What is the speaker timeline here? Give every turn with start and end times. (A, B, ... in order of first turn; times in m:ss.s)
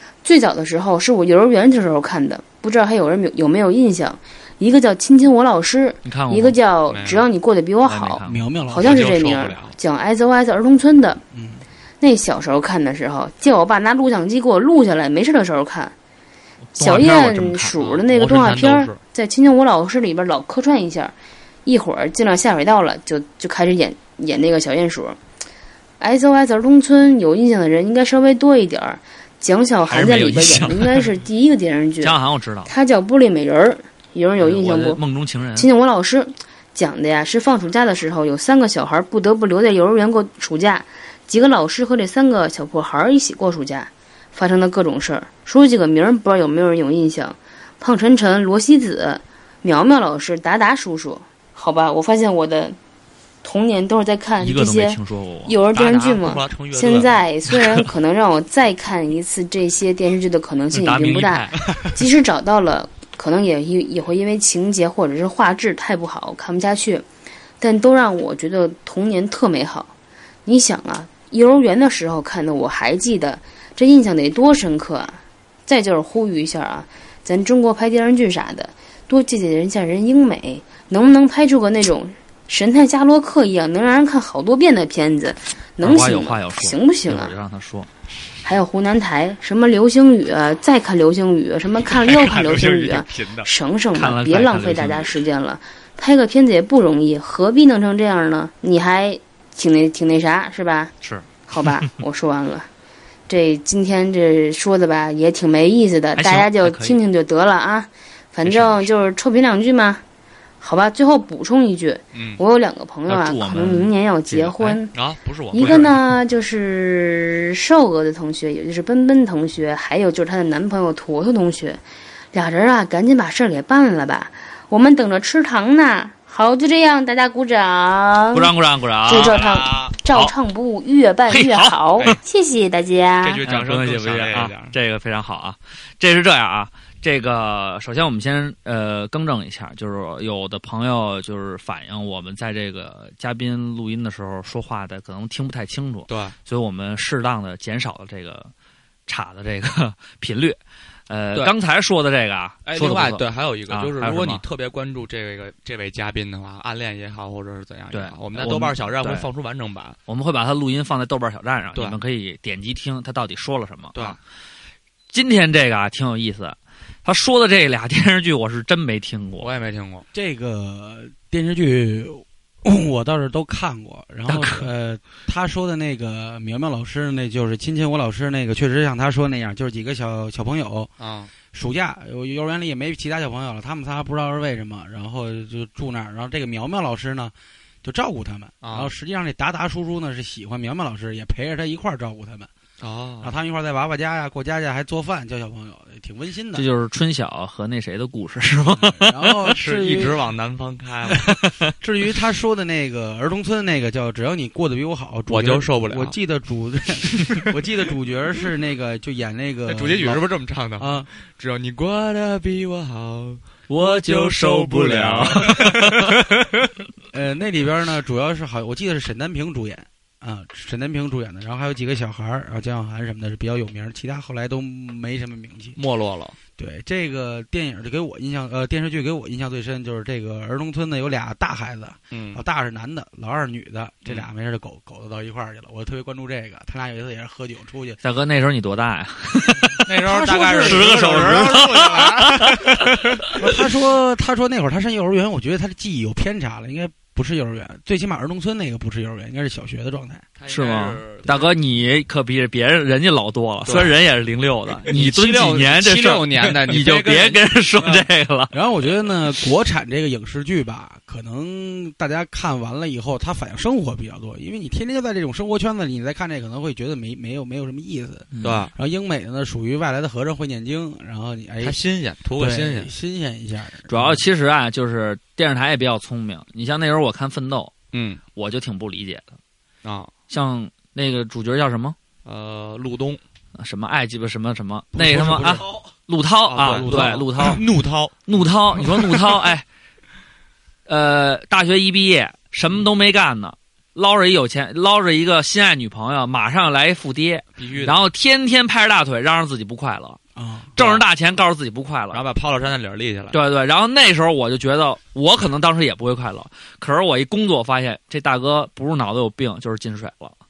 0:00.2-0:11.2 A
0:06.0-0:06.6 B
0:06.9-0:07.2 C
0:07.8-0:08.5 B
0:08.2-0:09.1 D
0:08.8-0:09.8 C
0:11.3-0:11.6 D
0:12.0-0:15.9 A
0:16.7-0:17.9 B
0:16.8-0:21.1 A
0:18.0-0:19.0 C
0:21.6-0:25.2 A
0:26.0-0:35.0 A
0:29.9-0:31.1 B
0:32.0-0:32.7 B
0:34.4-0:35.7 B
0:35.6-0:52.8 A
0:53.4-1:07.0 A
0:54.4-0:55.5 B
0:55.7-0:57.2 C
1:00.7-1:01.6 B
1:07.6-1:09.9 A
1:10.4-1:27.3 A
1:25.8-1:27.9 B
1:28.4-1:40.9 A
1:31.8-1:33.5 C
1:33.9-1:35.1 B
1:41.5-1:42.7 A
1:43.3-1:50.0 A
1:46.2-1:47.0 B
1:48.4-1:48.9 B
1:50.6-1:54.9 A
1:52.1-1:52.4 C
1:53.1-1:54.8 B
1:54.9-1:55.9 C
1:55.5-2:01.8 A
2:02.3-2:08.5 A
2:08.3-2:09.5 B
2:09.0-2:13.4 A
2:09.1-2:09.9 C
2:11.3-2:12.2 B
2:13.2-2:14.7 C
2:13.4-2:28.5 B
2:26.1-2:26.3 C
2:29.1-2:30.6 B
2:31.1-2:34.4 B
2:32.6-2:40.0 C
2:37.9-2:39.3 B
2:40.1-2:44.2 B
2:45.1-2:49.5 B
2:49.4-2:50.0 C
2:50.1-3:00.9 D
2:54.3-2:54.7 B
3:01.0-3:01.3 C
3:01.5-3:12.5 D
3:08.6-3:08.9 C
3:12.8-3:13.3 C
3:13.2-3:16.7 D
3:16.5-3:19.5 B
3:18.7-3:20.2 D
3:19.5-3:21.3 C
3:21.4-3:21.7 B
3:21.8-3:31.1 D
3:25.3-3:26.1 C
3:29.7-3:36.4 C
3:33.7-3:36.0 B
3:37.1-3:45.8 D
3:45.8-3:46.4 C
3:46.6-3:58.0 D
3:52.1-3:52.4 C
3:58.0-3:59.9 B
3:59.8-4:03.3 C
4:00.0-4:01.4 D
4:00.5-4:02.7 B
4:03.4-4:10.2 D
4:10.4-4:11.6 C
4:10.5-4:18.5 B
4:13.6-4:13.9 C
4:14.9-4:18.0 C
4:18.5-4:31.8 D
4:28.3-4:28.7 B
4:28.4-4:28.7 C
4:31.6-4:32.9 C
4:32.4-4:34.2 D
4:33.9-4:37.7 B
4:37.9-4:38.2 C
4:38.3-4:39.4 B
4:39.8-4:40.1 C
4:40.3-4:42.0 B
4:42.2-4:43.2 C
4:43.6-4:47.6 B
4:44.9-4:45.7 D
4:46.5-4:48.2 C
4:46.6-4:47.6 D
4:48.3-4:49.6 B
4:50.9-5:00.2 B
4:57.6-4:58.0 C
5:00.4-5:00.7 D
5:00.8-5:02.2 B
5:00.8-5:01.0 C
5:02.1-5:03.4 C
5:03.3-5:10.4 B